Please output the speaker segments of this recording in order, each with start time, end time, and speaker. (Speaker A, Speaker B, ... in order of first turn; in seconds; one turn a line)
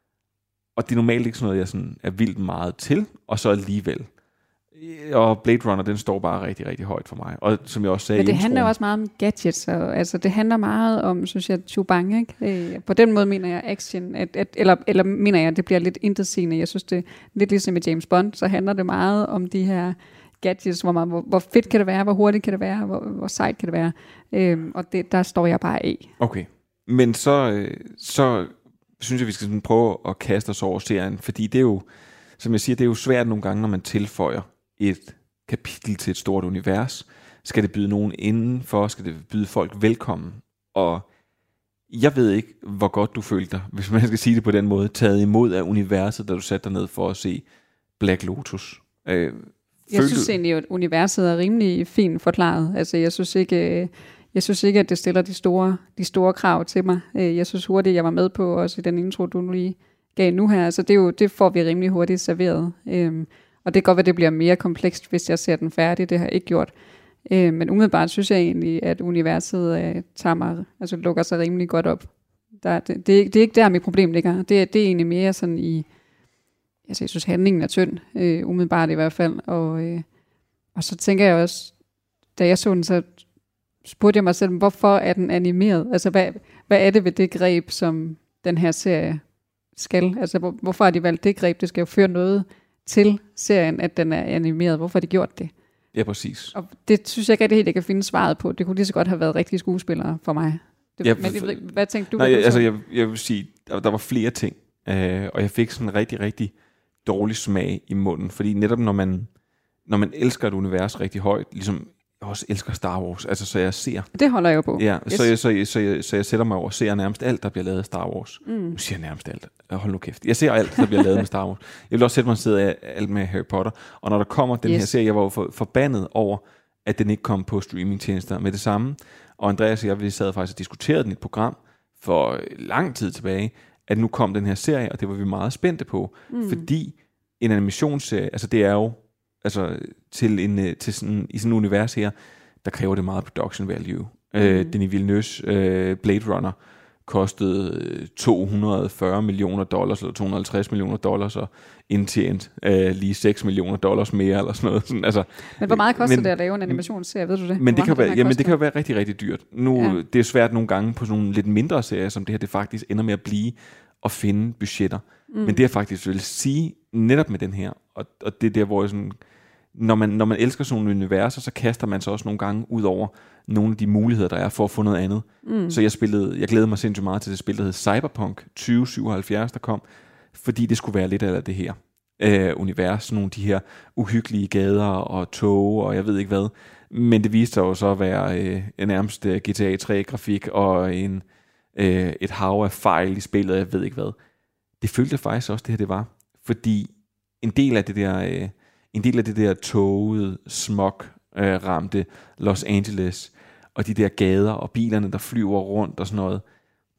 Speaker A: 0.8-4.1
Speaker A: 4.7-8.7
Speaker B: 8.2-26.1
Speaker A: 26.2-31.9
Speaker A: 32.4-41.1
Speaker A: 41.9-47.5
Speaker A: 48.0-50.4
Speaker B: 49.9-66.7
Speaker B: 67.3-75.9
Speaker B: 76.9-80.1
Speaker B: 80.8-81.7
Speaker B: 82.4-83.1
Speaker B: 83.8-89.2
Speaker B: 89.8-95.5
Speaker A: 95.9-96.5
Speaker B: 96.5-102.7
Speaker A: 101.0-106.5
Speaker A: 107.0-109.3
Speaker A: 109.9-114.1
Speaker B: 114.1-115.3
Speaker A: 114.8-156.8
Speaker B: 118.5-118.8
Speaker B: 124.6-124.9
Speaker B: 136.3-136.7
Speaker B: 144.4-144.8
Speaker B: 155.6-158.6
Speaker A: 157.6-169.2
Speaker B: 159.7-160.0
Speaker B: 165.3-165.7
Speaker A: 169.8-191.2
Speaker B: 175.4-175.8
Speaker A: 191.8-194.2
Speaker A: 194.8-206.4